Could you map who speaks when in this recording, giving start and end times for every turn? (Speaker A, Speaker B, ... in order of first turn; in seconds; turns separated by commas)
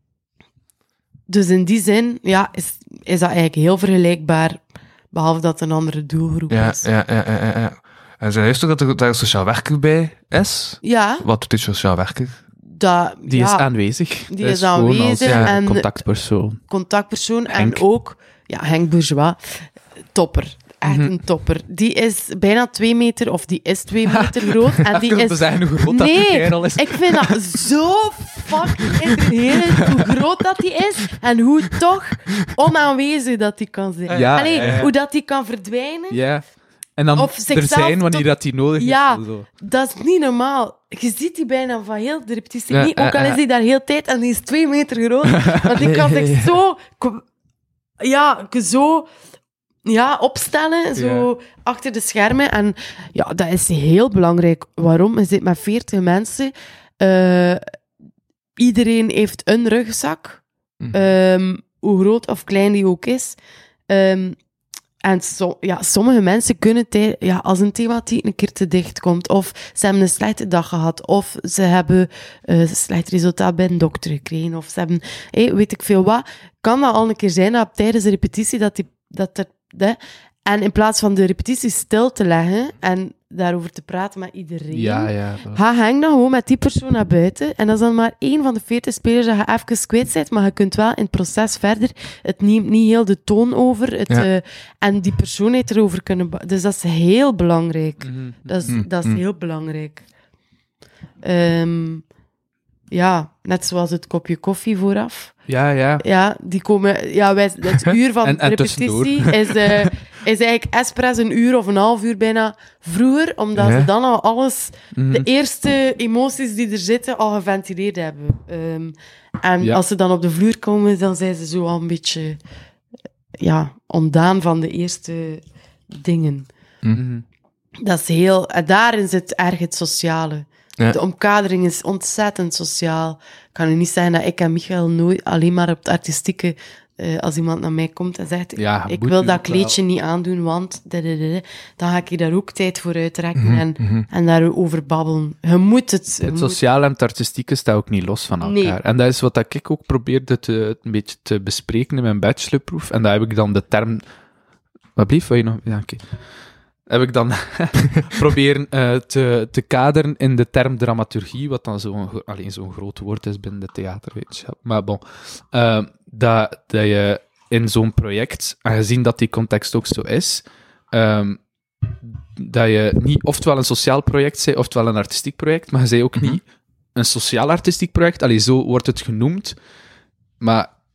Speaker A: 1.3-6.8, Speaker B: 6.5-12.4, Speaker A: 10.8-11.2, Speaker A: 12.7-15.9, Speaker C: 13.3-16.6, Speaker A: 16.7-36.5, Speaker C: 17.5-17.9, Speaker C: 20.9-21.1, Speaker C: 24.2-27.6, Speaker B: 34.1-34.9, Speaker C: 34.1-34.9, Speaker C: 36.1-39.5, Speaker A: 37.1-47.2, Speaker B: 42.7-43.4, Speaker B: 45.8-46.5, Speaker A: 48.0-49.1, Speaker A: 49.8-57.6, Speaker B: 51.0-51.2, Speaker A: 58.6-60.4, Speaker B: 60.8-61.1, Speaker A: 60.9-64.4, Speaker A: 65.0-100.0, Speaker C: 84.7-85.6, Speaker C: 98.0-98.7, Speaker B: 98.7-99.2, Speaker A: 101.2-102.0, Speaker A: 102.9-105.5, Speaker C: 105.5-106.0, Speaker A: 106.0-122.4, Speaker C: 108.2-109.9, Speaker B: 113.5-113.9, Speaker C: 114.9-115.3, Speaker A: 123.4-126.5, Speaker C: 126.9-127.2, Speaker A: 127.8-146.6, Speaker C: 138.6-139.8, Speaker B: 143.3-144.1, Speaker C: 146.2-154.0, Speaker A: 148.4-148.8, Speaker C: 154.9-156.2, Speaker C: 156.9-176.4, Speaker C: 176.9-179.6, Speaker C: 180.4-180.7